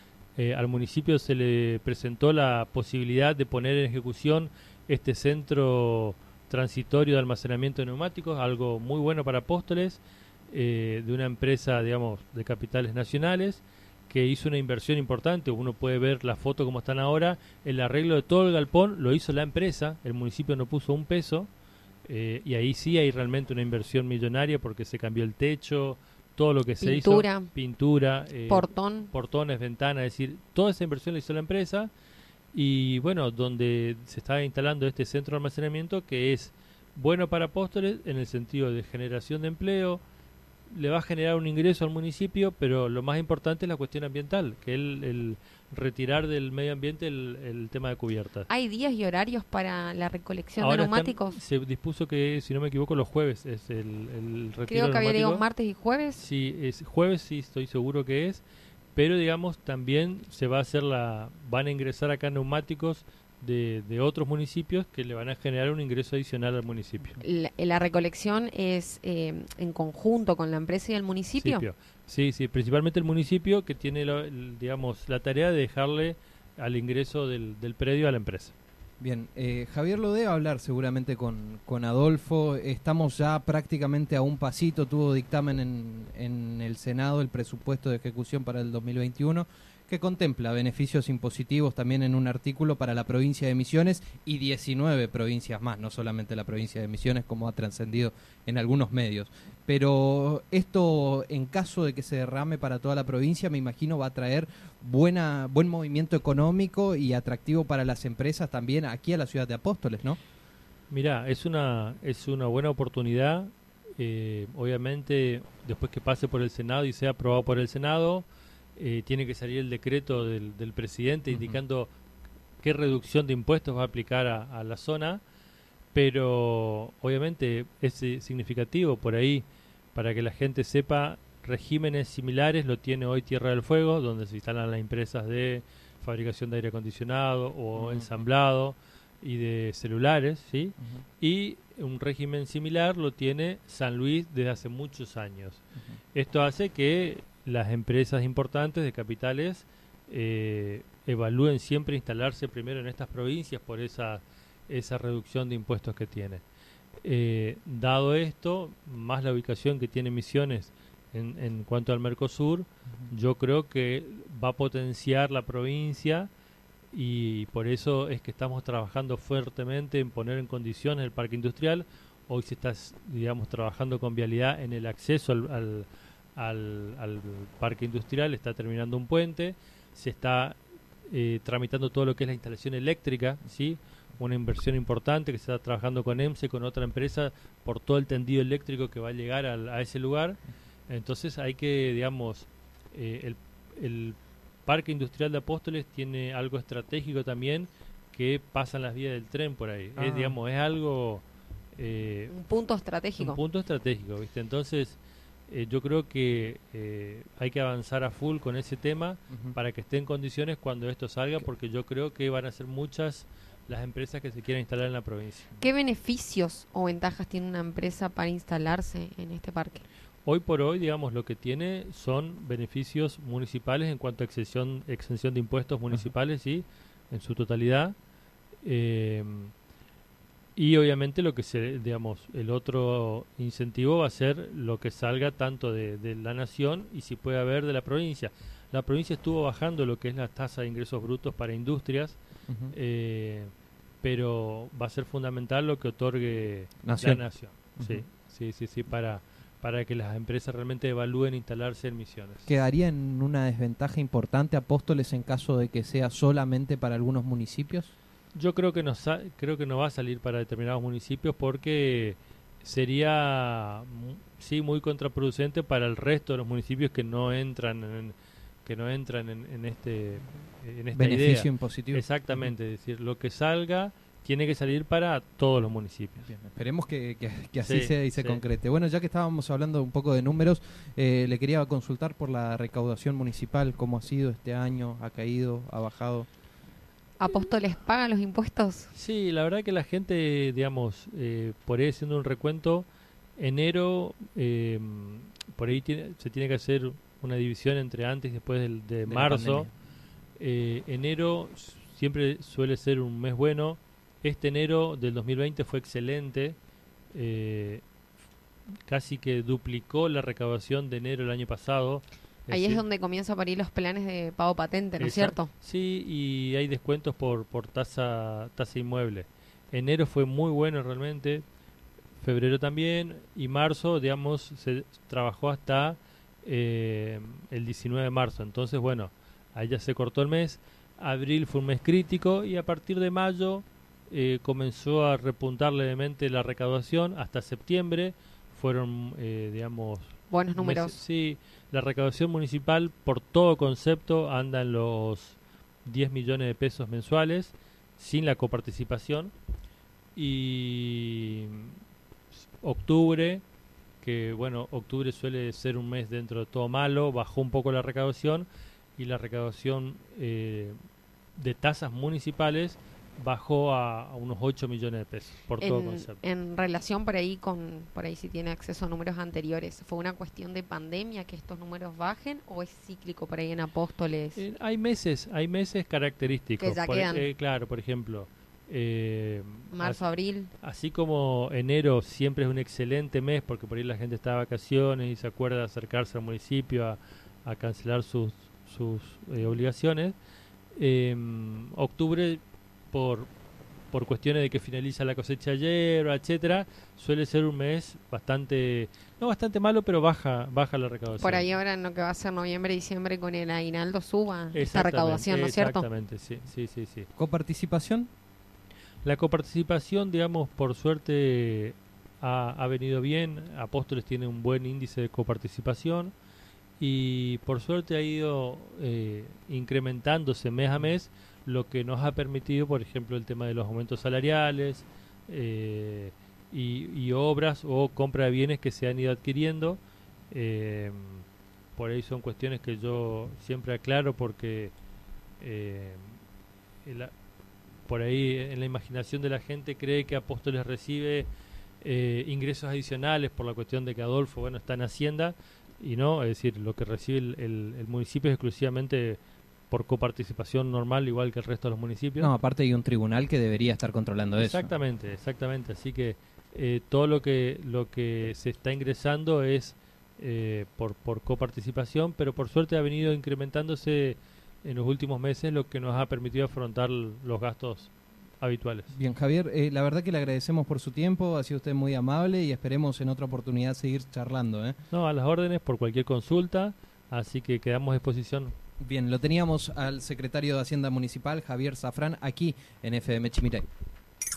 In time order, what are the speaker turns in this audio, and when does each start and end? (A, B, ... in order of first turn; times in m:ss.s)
0:00.4-0:21.5 A
0:22.0-0:31.9 A
0:26.8-0:27.5 B
0:28.5-0:29.1 B
0:32.5-0:40.0 A
0:40.7-0:48.5 A
0:48.5-0:51.4 B
0:50.6-0:55.4 A
0:54.7-0:56.2 B
0:56.2-0:58.4 A
0:58.9-1:07.2 A
1:07.2-1:11.6 B
1:11.4-1:18.5 A
1:19.0-1:50.2 C
1:50.9-2:01.9 A
2:01.3-2:01.6 C
2:02.6-2:05.2 A
2:05.9-2:25.6 A
2:17.7-2:18.2 C
2:26.1-2:36.4 A
2:37.0-2:46.3 A
2:46.9-3:21.2 A
3:20.0-3:20.4 C
3:21.8-3:22.3 A
3:22.3-3:23.4 B
3:23.2-3:35.5 A
3:29.3-3:29.6 C
3:35.6-3:39.8 B
3:40.2-3:47.9 A
3:48.6-3:49.5 A
3:50.6-4:02.2 A
4:02.5-4:02.7 C
4:02.7-4:12.5 A
4:06.8-4:07.2 C
4:07.8-4:08.0 C
4:12.5-4:17.9 C
4:18.3-4:36.3 A
4:30.9-4:32.5 C
4:36.2-4:46.3 C
4:37.6-4:38.4 A
4:47.2-4:48.9 B
4:48.9-4:59.7 A
4:59.1-4:59.7 C
5:00.4-5:06.6 A
5:07.1-5:07.8 A
5:08.8-5:12.8 A
5:12.5-5:15.5 B
5:15.0-5:21.4 A
5:22.2-5:49.3 A
5:40.3-5:41.0 B
5:50.1-5:51.8 A
5:52.6-5:53.4 A
5:54.0-6:00.8 A
6:01.4-6:06.2 A
6:05.6-6:14.4 B
6:14.3-6:20.0 A
6:16.6-6:17.2 B
6:19.7-6:20.5 B
6:20.6-6:30.2 A
6:30.8-6:33.3 A
6:33.9-6:41.5 A
6:41.2-6:45.9 B
6:44.5-6:47.1 A
6:47.2-6:48.1 C
6:49.0-6:56.1 A
6:56.8-7:14.7 A
7:15.4-7:16.2 A
7:16.8-7:17.1 A
7:17.8-7:21.3 A
7:21.8-7:32.3 A
7:32.2-7:34.7 C
7:34.4-7:48.9 A
7:48.9-7:54.8 C
7:54.9-7:58.5 A
7:58.8-8:03.6 C